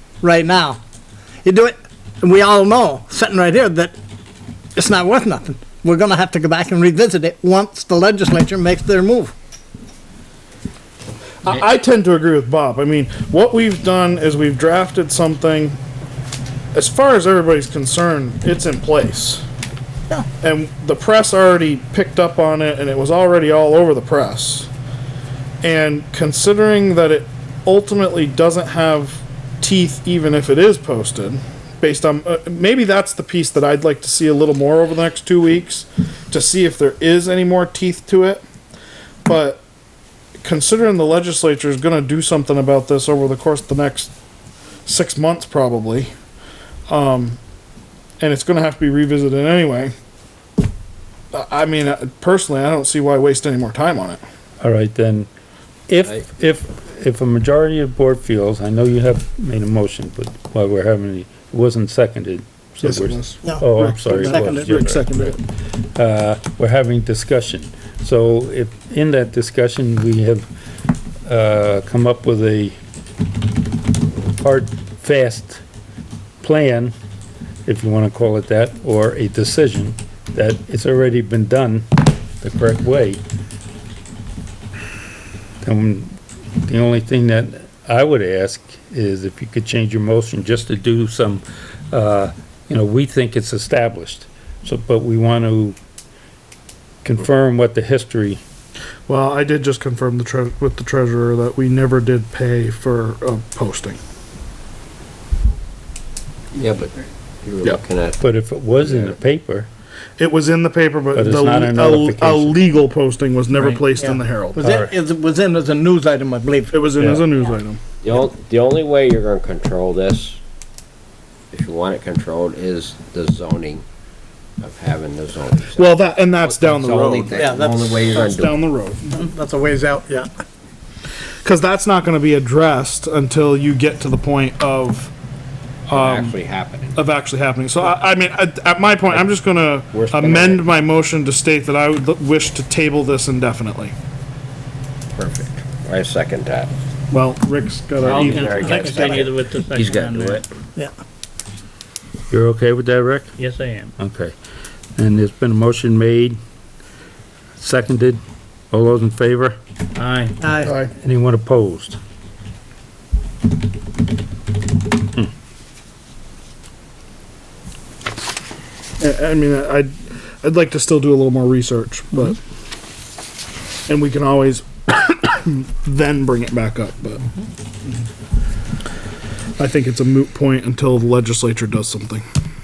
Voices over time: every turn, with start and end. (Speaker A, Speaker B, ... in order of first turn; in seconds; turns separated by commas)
Speaker A: 0.2-0.8, Speaker A: 1.4-4.0, Speaker A: 4.7-9.3, Speaker B: 11.4-15.8, Speaker B: 16.7-19.4, Speaker B: 20.4-24.7, Speaker B: 25.6-38.4, Speaker B: 39.2-39.6, Speaker B: 40.4-44.1, Speaker B: 44.9-46.1, Speaker B: 46.9-47.4, Speaker B: 48.2-49.9, Speaker B: 51.3-54.2, Speaker C: 54.6-55.3, Speaker C: 55.9-65.3, Speaker B: 62.8-65.4, Speaker A: 63.4-65.3, Speaker C: 66.0-70.5, Speaker C: 71.2-72.7, Speaker C: 74.3-75.6, Speaker C: 76.4-76.9, Speaker C: 77.7-81.9, Speaker C: 82.4-83.2, Speaker C: 85.6-95.8, Speaker C: 97.0-98.4, Speaker B: 99.1-104.0, Speaker D: 106.5-108.2, Speaker C: 108.2-109.7, Speaker D: 108.8-109.2, Speaker B: 110.2-114.6, Speaker C: 111.1-112.6, Speaker A: 113.9-116.8, Speaker C: 114.6-114.9, Speaker B: 116.7-118.0, Speaker D: 118.0-120.4, Speaker D: 121.5-123.8, Speaker D: 124.6-128.6, Speaker B: 125.8-127.5, Speaker A: 127.3-128.1, Speaker B: 128.1-129.2, Speaker A: 129.1-130.3, Speaker B: 131.4-135.1, Speaker B: 135.9-136.4, Speaker D: 135.9-137.1, Speaker B: 136.9-143.9, Speaker D: 139.9-140.7, Speaker D: 145.1-146.7, Speaker B: 147.1-149.3, Speaker D: 148.0-150.4, Speaker E: 148.1-150.4, Speaker C: 152.3-153.3, Speaker E: 153.4-153.9, Speaker C: 154.0-154.3, Speaker C: 155.0-156.4, Speaker C: 157.6-158.2, Speaker C: 158.7-159.6, Speaker E: 159.9-160.4, Speaker A: 160.4-160.7, Speaker B: 160.6-160.9, Speaker C: 161.0-162.0, Speaker B: 169.0-169.9, Speaker B: 170.4-172.4, Speaker B: 173.9-177.2, Speaker B: 179.6-182.2